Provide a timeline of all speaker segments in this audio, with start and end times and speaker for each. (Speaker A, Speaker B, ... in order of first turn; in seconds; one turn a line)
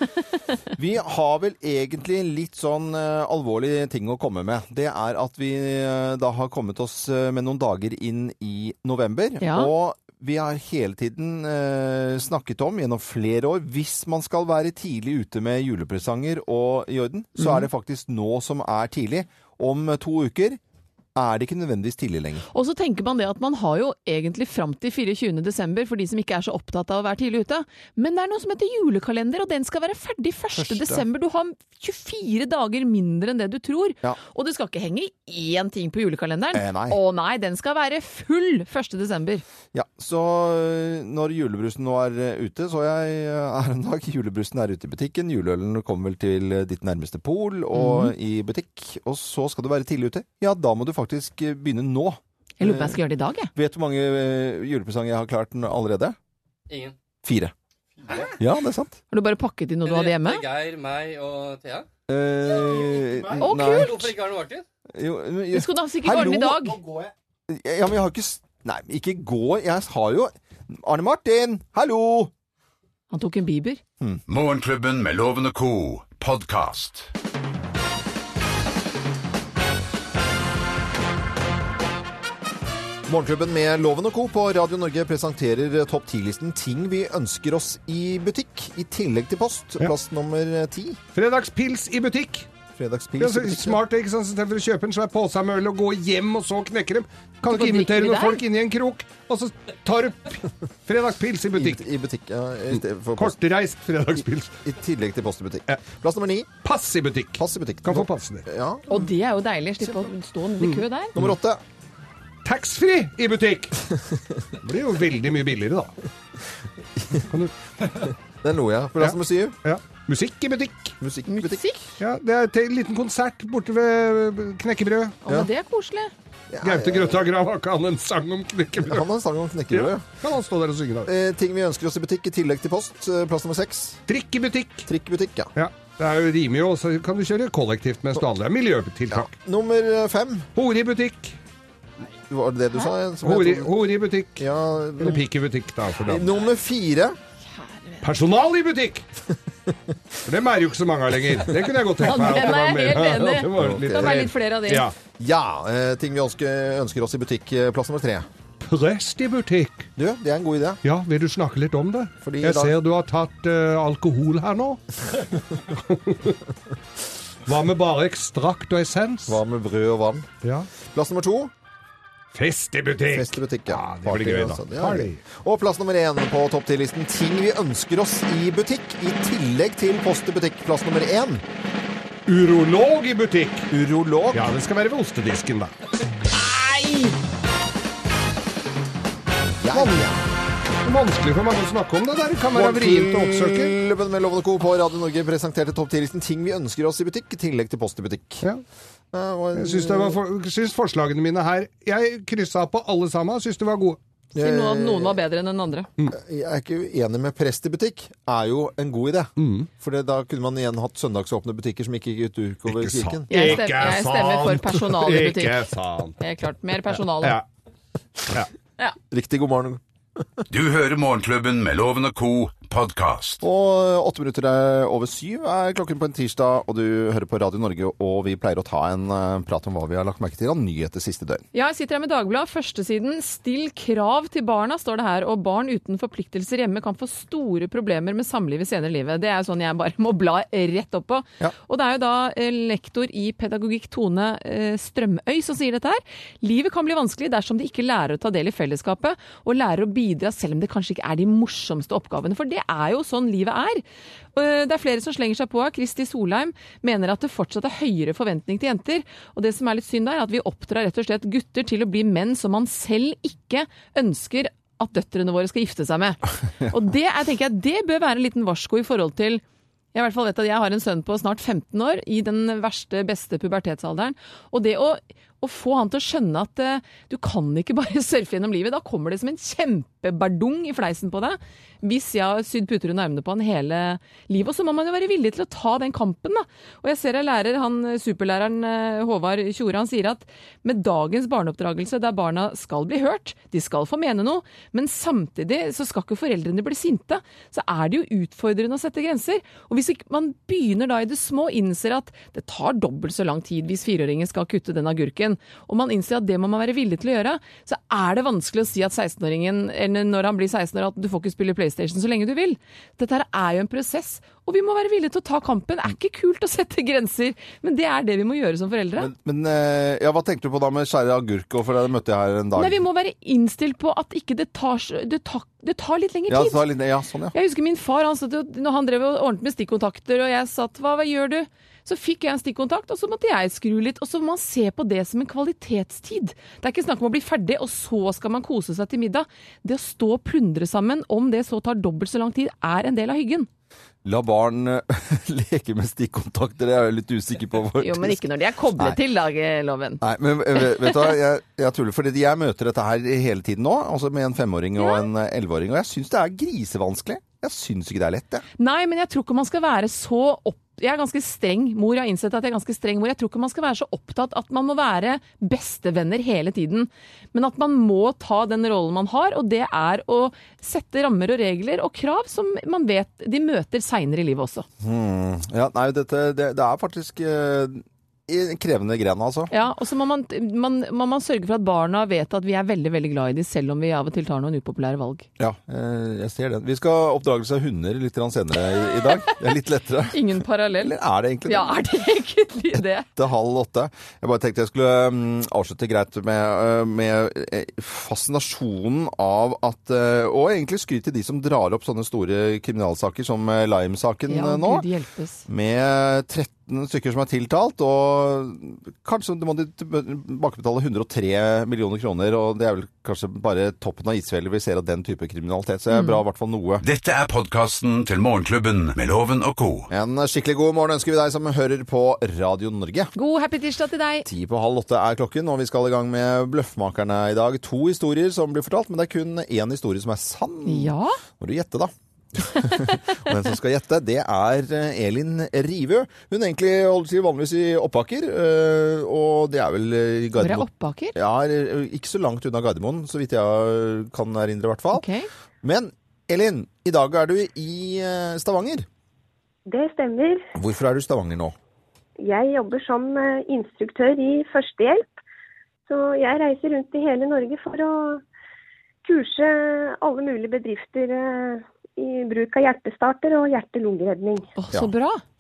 Speaker A: 0.8-20.6
Speaker B: 9.4-9.7
Speaker B: 17.4-17.6
Speaker A: 21.1-22.4
Speaker B: 22.5-39.4
Speaker A: 30.6-31.0
Speaker A: 36.5-37.0
Speaker A: 39.7-53.0
Speaker B: 47.7-48.1
Speaker B: 52.6-53.5
Speaker A: 53.5-56.2
Speaker C: 56.7-57.0
Speaker A: 57.2-57.5
Speaker A: 58.3-59.0
Speaker B: 59.1-60.4
Speaker C: 59.8-61.9
Speaker A: 62.1-64.1
Speaker C: 63.4-64.7
Speaker B: 63.4-64.1
Speaker A: 64.9-72.3
Speaker B: 65.5-66.8
Speaker B: 73.1-73.8
Speaker D: 74.3-77.1
Speaker A: 83.1-91.0
Speaker E: 91.1-92.5
Speaker A: 92.8-93.8
Speaker E: 93.2-101.8
Speaker B: 97.5-98.4
Speaker A: 101.5-103.4
Speaker E: 103.2-104.6
Speaker A: 104.2-106.5
Speaker E: 106.6-108.5
Speaker A: 107.4-109.1
Speaker B: 108.9-111.2
Speaker E: 110.6-111.3
Speaker A: 111.2-111.6
Speaker E: 112.5-113.8
Speaker E: 114.6-116.0
Speaker E: 117.2-118.1
Speaker A: 118.4-119.6
Speaker E: 119.0-121.0
Speaker A: 121.0-121.9
Speaker B: 121.3-121.8
Speaker E: 122.0-125.2
Speaker B: 125.2-126.1
Speaker A: 126.5-127.3
Speaker E: 126.6-129.1
Speaker A: 128.8-130.2
Speaker E: 129.7-131.1
Speaker A: 131.1-134.0
Speaker E: 134.1-134.9
Speaker A: 134.9-135.5
Speaker E: 135.6-139.3
Speaker A: 139.1-140.5
Speaker E: 140.6-141.4
Speaker A: 142.3-143.7
Speaker E: 143.2-144.4
Speaker A: 144.4-145.2
Speaker E: 145.0-146.3
Speaker A: 146.0-147.2
Speaker B: 147.5-148.1
Speaker E: 148.0-149.1
Speaker E: 150.3-154.9
Speaker B: 152.0-154.9
Speaker A: 153.6-154.1
Speaker A: 155.2-158.3
Speaker E: 158.6-159.9
Speaker A: 160.0-160.8
Speaker E: 160.8-164.8
Speaker A: 162.2-162.8
Speaker E: 165.7-166.3
Speaker E: 167.5-169.4
Speaker A: 169.3-170.3
Speaker E: 170.4-170.7
Speaker A: 170.8-171.5
Speaker E: 172.3-175.2
Speaker A: 173.1-181.4
Speaker E: 182.3-183.7
Speaker A: 183.7-184.6
Speaker E: 184.3-187.1
Speaker A: 189.5-190.2
Speaker E: 189.7-190.1
Speaker E: 190.8-193.7
Speaker A: 192.6-198.5
Speaker A: 199.1-200.2
Speaker E: 199.6-204.0
Speaker A: 204.3-205.2
Speaker B: 204.4-205.9
Speaker A: 206.1-213.6
Speaker E: 209.4-209.7
Speaker E: 212.7-216.2
Speaker B: 213.3-215.6
Speaker B: 216.2-217.4
Speaker E: 216.9-217.5
Speaker A: 219.1-220.4
Speaker D: 220.5-223.4
Speaker A: 223.4-231.4
Speaker B: 231.5-253.8
Speaker B: 254.3-269.4
Speaker B: 269.9-319.1
Speaker A: 319.0-322.8
Speaker B: 322.6-326.6
Speaker A: 326.3-327.4
Speaker B: 327.3-343.5
Speaker A: 344.0-348.2
Speaker B: 347.8-350.0
Speaker A: 350.0-358.4
Speaker B: 350.6-351.1
Speaker B: 354.8-355.1
Speaker B: 358.6-374.7
Speaker A: 374.8-379.5
Speaker B: 379.5-385.3
Speaker A: 385.4-391.8
Speaker B: 390.1-390.9
Speaker B: 391.5-393.1
Speaker A: 392.7-404.9
Speaker B: 404.3-405.5
Speaker A: 405.5-416.8
Speaker B: 415.9-416.2
Speaker D: 416.8-419.9
Speaker A: 419.9-423.1
Speaker B: 423.1-424.3
Speaker A: 424.2-445.1
Speaker B: 430.6-431.2
Speaker B: 440.4-441.2
Speaker B: 444.9-445.3
Speaker A: 445.6-448.9
Speaker F: 449.7-450.5
Speaker A: 450.6-451.5
Speaker F: 452.2-455.1
Speaker F: 455.9-458.2
Speaker F: 459.0-464.5
Speaker B: 464.6-465.2